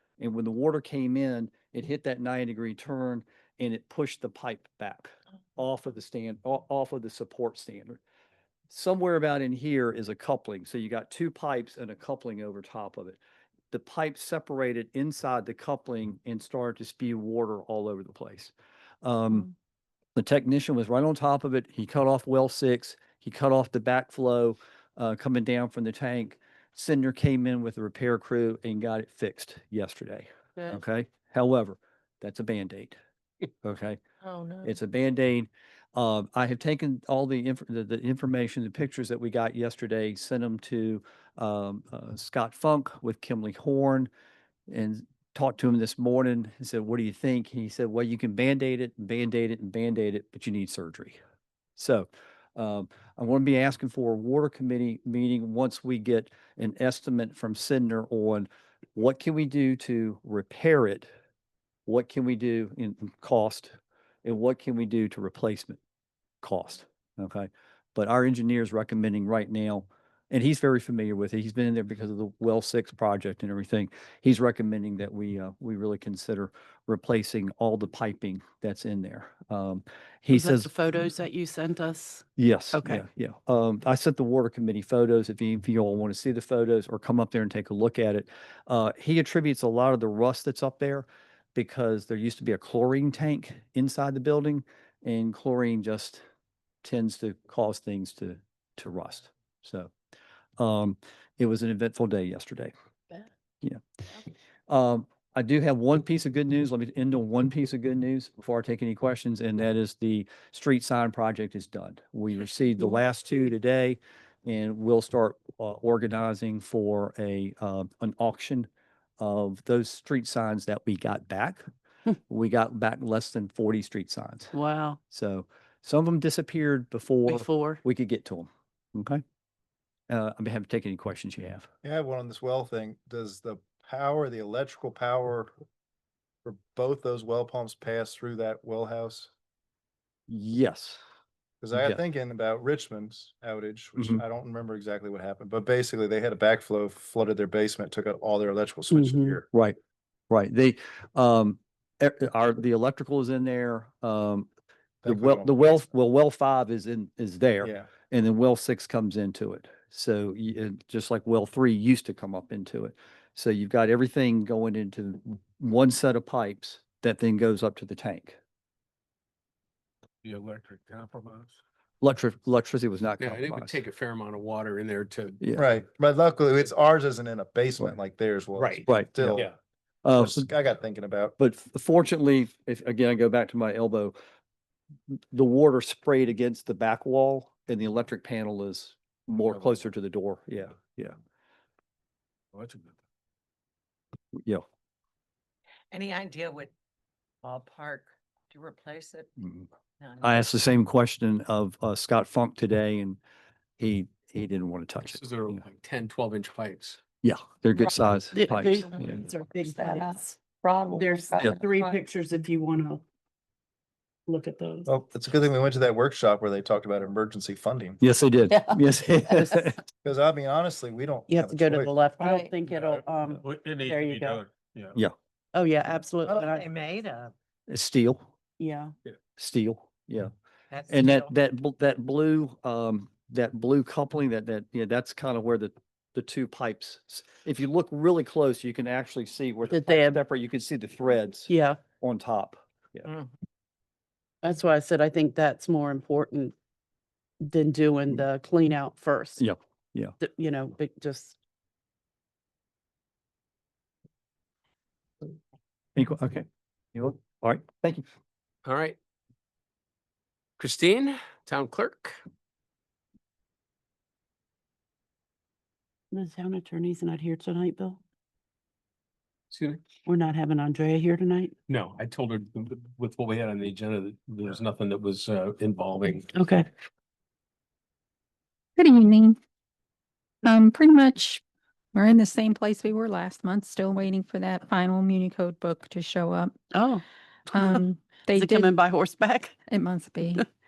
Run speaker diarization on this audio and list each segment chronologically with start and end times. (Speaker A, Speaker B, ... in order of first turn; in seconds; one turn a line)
Speaker A: 0.2-8.0
Speaker A: 8.7-13.2
Speaker A: 13.7-19.5
Speaker A: 20.1-33.0
Speaker A: 33.6-34.0
Speaker A: 34.6-44.1
Speaker A: 44.7-51.2
Speaker A: 51.8-61.1
Speaker A: 61.9-65.8
Speaker A: 66.4-80.7
Speaker B: 80.3-83.0
Speaker A: 82.4-96.2
Speaker A: 96.8-99.9
Speaker A: 100.6-102.7
Speaker A: 104.7-118.7
Speaker A: 119.2-121.6
Speaker A: 122.3-124.5
Speaker B: 124.5-125.0
Speaker A: 125.1-129.2
Speaker B: 127.2-127.8
Speaker A: 130.1-131.7
Speaker C: 131.8-135.5
Speaker C: 136.4-139.3
Speaker A: 140.3-141.0
Speaker C: 141.6-149.4
Speaker A: 141.7-142.0
Speaker B: 148.9-149.3
Speaker A: 150.3-154.5
Speaker C: 155.0-155.7
Speaker A: 155.1-168.4
Speaker C: 157.6-157.9
Speaker D: 170.2-171.5
Speaker A: 172.0-173.8
Speaker D: 173.2-175.4
Speaker A: 175.4-175.7
Speaker C: 175.6-179.5
Speaker D: 178.6-178.8
Speaker A: 178.8-179.5
Speaker A: 180.0-180.5
Speaker C: 180.1-181.4
Speaker A: 181.4-184.2
Speaker A: 185.3-191.2
Speaker A: 194.3-194.6
Speaker E: 195.9-196.7
Speaker E: 197.4-199.3
Speaker A: 199.4-199.7
Speaker E: 200.0-200.5
Speaker A: 200.2-203.2
Speaker A: 203.8-205.2
Speaker D: 205.0-207.0
Speaker A: 207.2-209.2
Speaker B: 208.3-210.4
Speaker E: 208.8-209.1
Speaker E: 209.7-211.9
Speaker B: 210.9-213.0
Speaker B: 214.3-214.9
Speaker C: 214.9-218.0
Speaker A: 218.0-219.8
Speaker C: 220.0-221.9
Speaker B: 221.3-224.4
Speaker E: 222.2-222.5
Speaker D: 222.7-225.0
Speaker B: 225.5-226.7
Speaker E: 226.2-227.3
Speaker A: 227.7-228.3
Speaker B: 228.6-228.9
Speaker A: 229.4-230.3
Speaker E: 230.7-231.3
Speaker A: 230.9-243.1
Speaker B: 239.7-240.2
Speaker B: 241.5-241.8
Speaker B: 244.4-246.5
Speaker B: 247.4-249.4
Speaker A: 249.4-250.1
Speaker B: 250.2-251.3
Speaker A: 255.9-258.1
Speaker D: 258.6-258.9
Speaker D: 260.6-262.2
Speaker B: 266.1-268.0
Speaker D: 269.5-269.8
Speaker B: 270.1-271.5
Speaker D: 271.7-276.3
Speaker B: 276.3-276.7
Speaker F: 278.8-279.4
Speaker F: 280.4-281.4
Speaker F: 281.9-286.6
Speaker B: 286.7-289.6
Speaker F: 287.5-288.7
Speaker F: 289.7-290.5